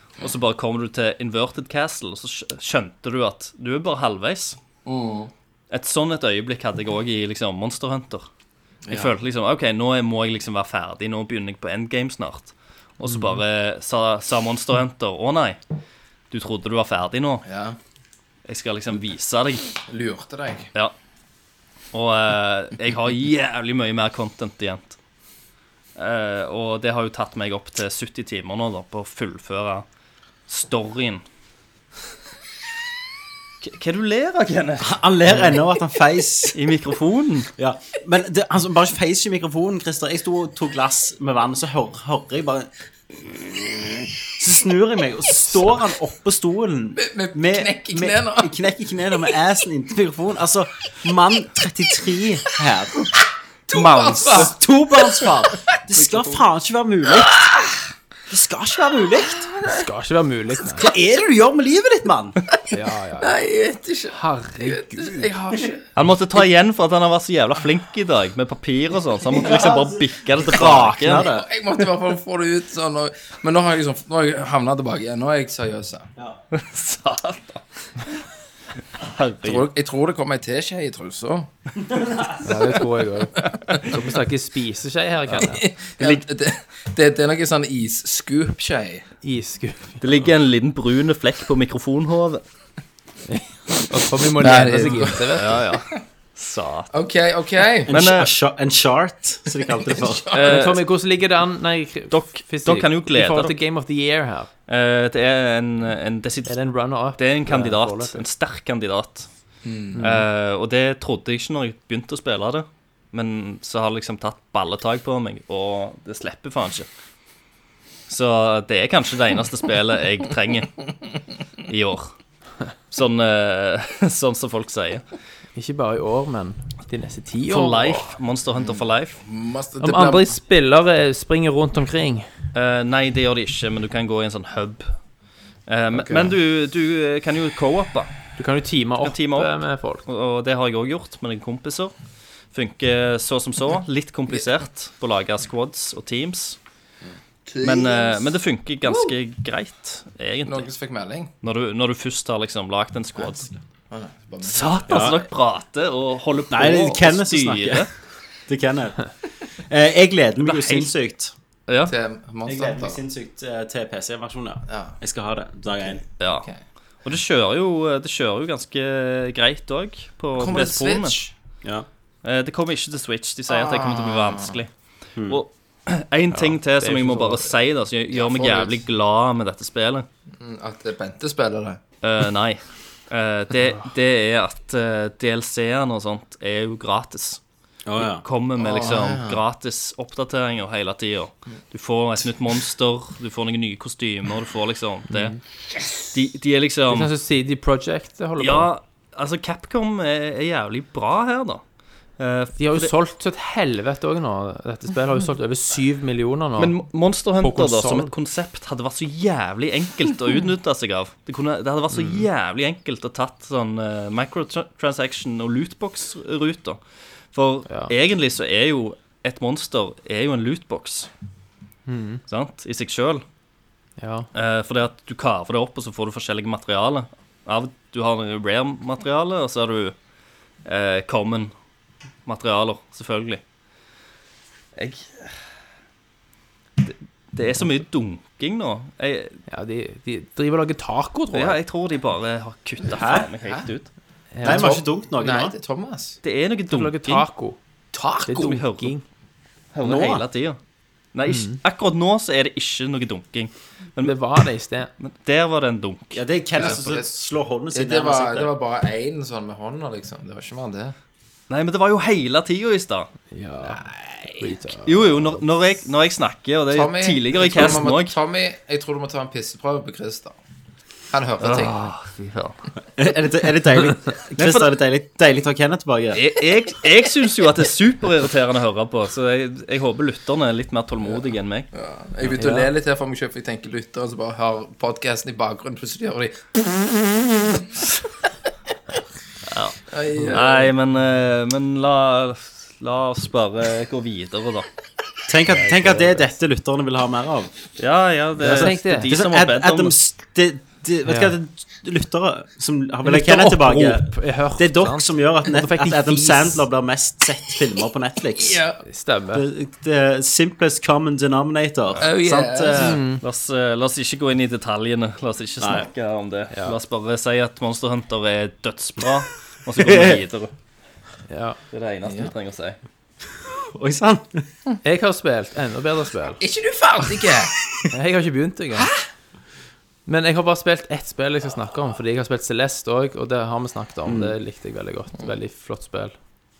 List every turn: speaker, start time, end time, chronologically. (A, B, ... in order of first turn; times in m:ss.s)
0:00.2-0:04.6 A
0:04.8-0:05.3 B
0:05.7-0:08.3 A
0:08.9-0:09.1 B
0:08.9-0:15.6 A
0:13.0-0:13.4 C
0:16.3-0:17.4 A
0:17.4-0:17.8 B
0:18.5-0:19.7 A
0:19.9-0:20.7 B
0:21.9-0:25.0 A
0:26.0-0:29.8 A
0:30.5-0:31.2 A
0:33.6-0:34.9 A
0:34.8-0:36.6 D
0:36.5-0:37.5 A
0:37.6-0:53.0 D
0:47.0-0:48.5 B
0:53.7-0:55.3 B
0:53.7-0:54.4 A
0:54.2-0:57.4 D
0:58.3-0:59.5 D
0:59.4-0:59.8 B
0:59.6-1:00.9 C
1:00.7-1:02.4 D
1:02.7-1:03.3 C
1:03.2-1:05.8 B
1:04.1-1:05.3 C
1:06.0-1:11.3 A
1:09.3-1:11.5 D
1:11.2-1:16.1 B
1:16.5-1:17.6 A
1:19.0-1:19.7 A
1:19.4-1:21.5 B
1:21.9-1:22.4 D
1:22.4-1:25.7 C
1:23.4-1:23.9 B
1:25.3-1:29.1 B
1:29.2-1:30.1 C
1:30.0-1:32.4 A
1:33.3-1:35.5 C
1:34.4-1:36.0 B
1:35.3-1:36.9 A
1:36.9-1:37.9 B
1:37.8-1:40.2 D
1:37.9-1:38.3 A
1:39.6-1:40.5 B
1:40.3-1:40.8 A
1:40.4-1:44.5 C
1:42.1-1:43.5 A
1:44.7-1:46.6 A
1:46.4-1:48.2 C
1:47.2-1:49.3 A
1:49.6-1:50.0 B
1:49.9-1:50.2 C
1:50.0-1:56.9 A
1:58.1-2:00.8 A
2:01.7-2:02.1 A
2:02.9-2:05.0 A
2:05.5-2:08.2 C
2:07.5-2:09.2 A
2:08.6-2:10.3 B
2:09.8-2:12.3 C
2:12.5-2:15.0 A
2:15.7-2:18.1 A
2:15.9-2:16.3 B
2:18.4-2:20.0 C
2:19.0-2:21.9 A
2:22.5-2:26.6 A
2:27.5-2:28.3 B
2:27.6-2:30.7 A
2:28.8-2:29.1 B
2:30.4-2:31.3 B
2:31.4-2:33.5 A
2:33.9-2:35.1 B
2:34.4-2:37.9 A
2:34.9-2:35.2 D
2:36.5-2:37.9 D
2:38.5-2:41.3 D
2:40.4-2:40.9 C
2:41.7-2:41.9 A
2:41.8-2:43.0 B
2:42.4-2:46.0 D
2:44.7-2:45.0 B
2:46.2-2:46.5 A
2:47.0-2:51.2 A
2:50.4-2:51.3 B
2:52.2-2:54.7 A
2:53.5-2:54.6 B
2:55.2-3:00.1 A
2:56.3-2:57.5 C
2:58.1-2:58.8 B
3:00.4-3:01.8 B
3:02.0-3:07.4 A
3:07.8-3:08.2 D
3:08.0-3:15.4 A
3:08.6-3:09.4 B
3:15.1-3:15.4 C
3:16.1-3:17.1 A
3:16.9-3:18.7 C
3:18.4-3:21.6 A
3:22.2-3:22.9 A
3:22.6-3:26.8 C
3:26.6-3:36.8 A
3:27.4-3:28.1 C
3:31.9-3:32.2 C
3:37.3-3:41.1 A
3:41.8-3:42.2 C
3:42.3-3:43.2 A
3:44.0-3:44.3 C
3:44.3-3:49.9 A
3:50.6-3:51.5 A
3:52.2-3:53.4 A
3:54.8-3:55.3 A
3:56.8-3:59.4 A
3:59.5-4:01.6 C
4:01.3-4:03.9 A
4:02.8-4:03.3 D
4:03.4-4:03.7 B
4:04.3-4:04.7 C
4:04.4-4:05.5 D
4:04.4-4:06.2 B
4:06.2-4:07.2 A
4:06.7-4:07.6 C
4:07.9-4:08.6 B
4:08.2-4:09.0 C
4:08.3-4:08.9 A
4:09.7-4:10.6 A
4:09.8-4:10.2 D
4:11.1-4:14.2 A
4:11.3-4:11.6 C
4:14.0-4:14.9 C
4:15.0-4:16.7 A
4:16.1-4:18.5 D
4:16.6-4:17.1 B
4:17.7-4:20.9 B
4:21.5-4:23.1 A
4:23.3-4:25.4 C
4:23.7-4:24.4 B
4:24.8-4:28.2 A
4:26.7-4:30.4 B
4:31.1-4:31.9 B
4:31.4-4:32.6 A
4:33.0-4:36.2 D
4:34.3-4:34.7 A
4:36.1-4:41.7 A
4:41.0-4:47.7 B
4:42.3-4:42.7 C
4:49.5-4:54.7 A
4:49.9-4:50.7 B
4:55.3-4:57.5 D
4:55.6-4:55.9 A
4:57.8-5:00.0 A
4:58.4-5:08.6 D
4:58.4-4:59.1 C
5:01.0-5:01.4 C
5:03.0-5:06.6 C
5:08.4-5:08.8 B
5:08.8-5:09.4 C
5:09.3-5:13.0 D
5:12.0-5:13.0 B
5:12.7-5:13.2 C
5:13.2-5:20.5 A
5:15.6-5:15.9 D
5:16.5-5:16.8 C
5:19.8-5:20.2 D
5:21.3-5:21.6 C
5:21.7-5:22.8 A
5:22.0-5:22.3 B
5:23.6-5:24.4 D
5:24.8-5:26.4 C
5:26.4-5:27.6 B
5:27.9-5:28.9 C
5:30.0-5:36.1 C
5:34.0-5:34.3 D